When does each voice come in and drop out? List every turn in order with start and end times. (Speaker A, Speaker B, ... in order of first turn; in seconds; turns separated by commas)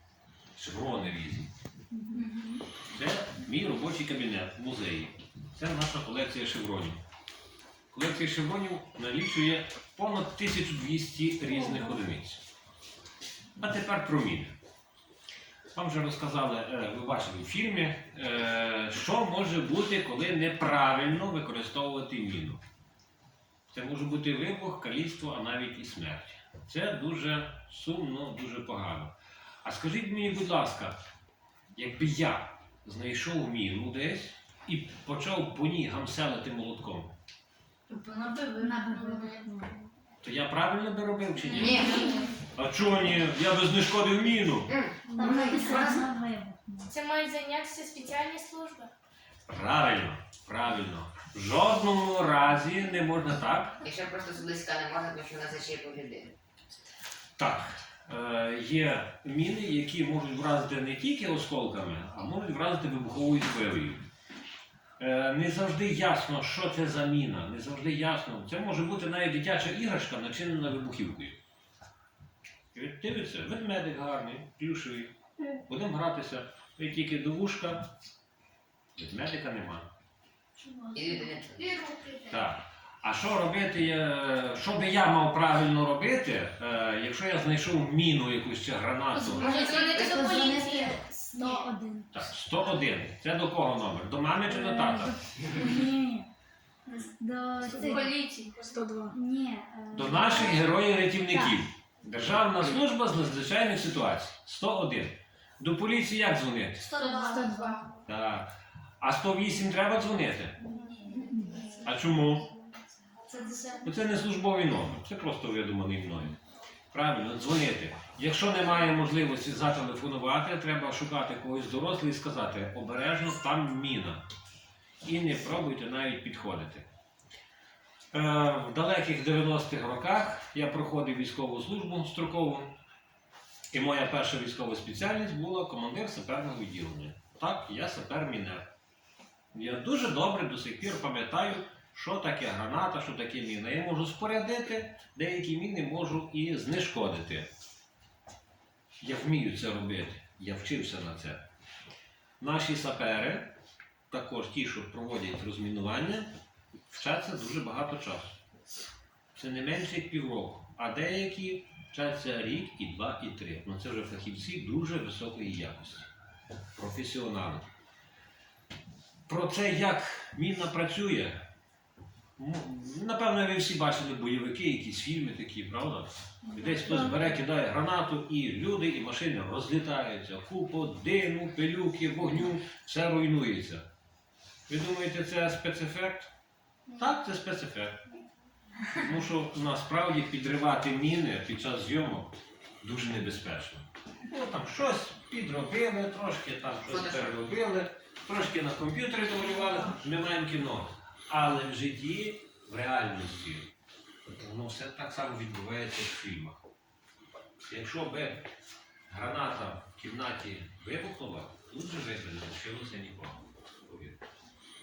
Speaker A: 0.5-1.5, Speaker B: 1.9-2.5, Speaker A: 2.9-7.0, Speaker A: 7.9-12.4, Speaker A: 13.6-14.5, Speaker A: 15.7-22.6, Speaker A: 23.7-29.1, Speaker A: 29.6-31.0, Speaker A: 31.7-37.1, Speaker B: 37.9-39.7, Speaker C: 38.9-39.4, Speaker A: 40.2-44.7, Speaker D: 41.5-42.3, Speaker D: 44.7-46.0, Speaker B: 45.1-46.9, Speaker C: 46.9-48.9, Speaker A: 49.5-53.8, Speaker D: 53.8-56.3, Speaker A: 57.4-64.0, Speaker A: 65.0-71.4, Speaker A: 72.7-77.9, Speaker A: 79.0-79.9, Speaker D: 80.9-82.0, Speaker C: 81.8-82.2, Speaker A: 82.2-89.8, Speaker D: 89.2-90.4, Speaker C: 89.3-91.6, Speaker B: 90.0-92.2, Speaker A: 92.1-95.6, Speaker B: 94.5-96.3, Speaker B: 96.9-98.3, Speaker C: 97.7-99.1, Speaker B: 99.1-100.6, Speaker A: 99.9-107.0, Speaker C: 106.8-107.8, Speaker B: 106.9-107.8, Speaker A: 108.0-108.5, Speaker A: 109.0-110.6, Speaker C: 110.9-111.8, Speaker B: 111.1-111.6, Speaker A: 111.8-112.5, Speaker A: 113.8-116.4, Speaker A: 116.9-124.2, Speaker A: 125.0-126.9, Speaker A: 128.1-132.7, Speaker A: 133.7-138.7, Speaker A: 139.5-147.5, Speaker A: 149.0-151.4, Speaker A: 152.4-153.5, Speaker A: 154.1-156.3, Speaker A: 156.9-158.4, Speaker A: 159.3-166.1, Speaker A: 166.8-167.7, Speaker A: 169.3-171.4, Speaker A: 172.4-183.8, Speaker A: 184.7-186.3, Speaker A: 186.9-188.0, Speaker A: 188.9-203.7, Speaker D: 196.9-197.3, Speaker A: 204.3-206.6, Speaker A: 207.7-208.4, Speaker A: 209.1-214.2